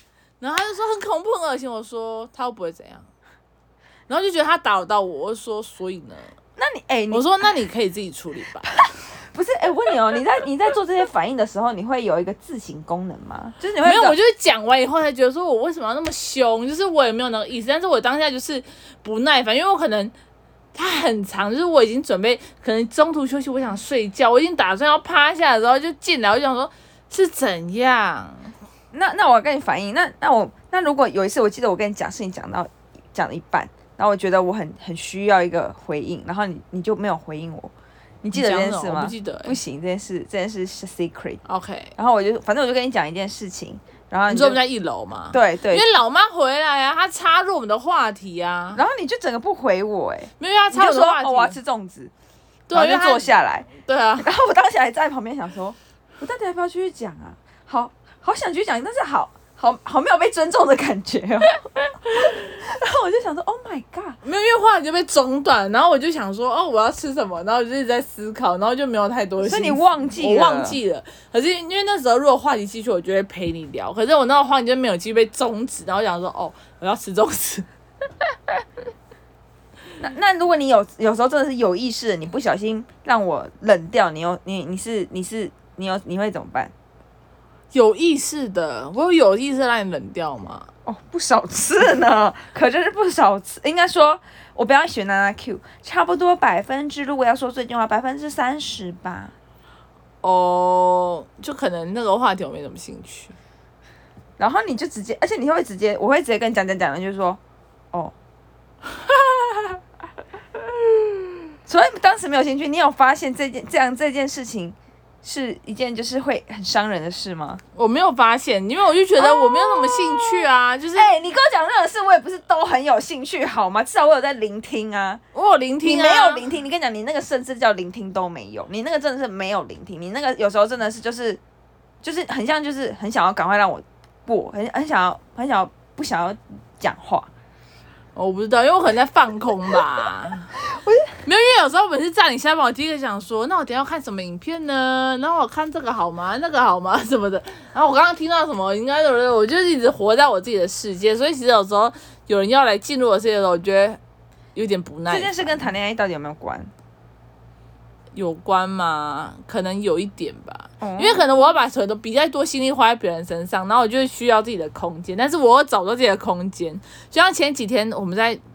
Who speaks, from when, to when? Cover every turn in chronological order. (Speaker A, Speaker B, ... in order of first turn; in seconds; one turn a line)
Speaker A: 0.4-3.1
Speaker A: 4.1-6.3
Speaker B: 6.6-7.3
Speaker A: 7.1-8.8
Speaker B: 8.8-14.2
Speaker A: 13.8-20.1
Speaker A: 20.7-28.5
Speaker B: 28.9-37.7
Speaker B: 38.2-41.4
Speaker A: 38.3-39.6
Speaker A: 41.4-41.9
Speaker B: 42.0-44.6
Speaker A: 44.3-48.8
Speaker B: 45.3-45.9
Speaker B: 48.7-52.1
Speaker A: 50.4-51.6
Speaker A: 52.7-54.3
Speaker B: 52.7-64.2
Speaker A: 64.2-77.7
Speaker B: 69.4-70.8
Speaker B: 80.0-86.7
Speaker A: 87.7-90.7
Speaker B: 90.8-99.3
Speaker A: 100.2-103.3
Speaker B: 104.4-107.4
Speaker A: 109.0-109.8
Speaker B: 111.7-117.6
Speaker A: 117.7-121.1
Speaker B: 119.2-120.4
Speaker B: 120.9-125.2
Speaker A: 125.3-126.4
Speaker B: 125.8-131.4
Speaker B: 132.0-137.3
Speaker A: 138.1-140.5
Speaker B: 140.6-141.1
Speaker A: 141.2-154.0
Speaker A: 154.5-155.6
Speaker B: 155.1-156.7
Speaker A: 158.1-168.4
Speaker B: 160.8-161.2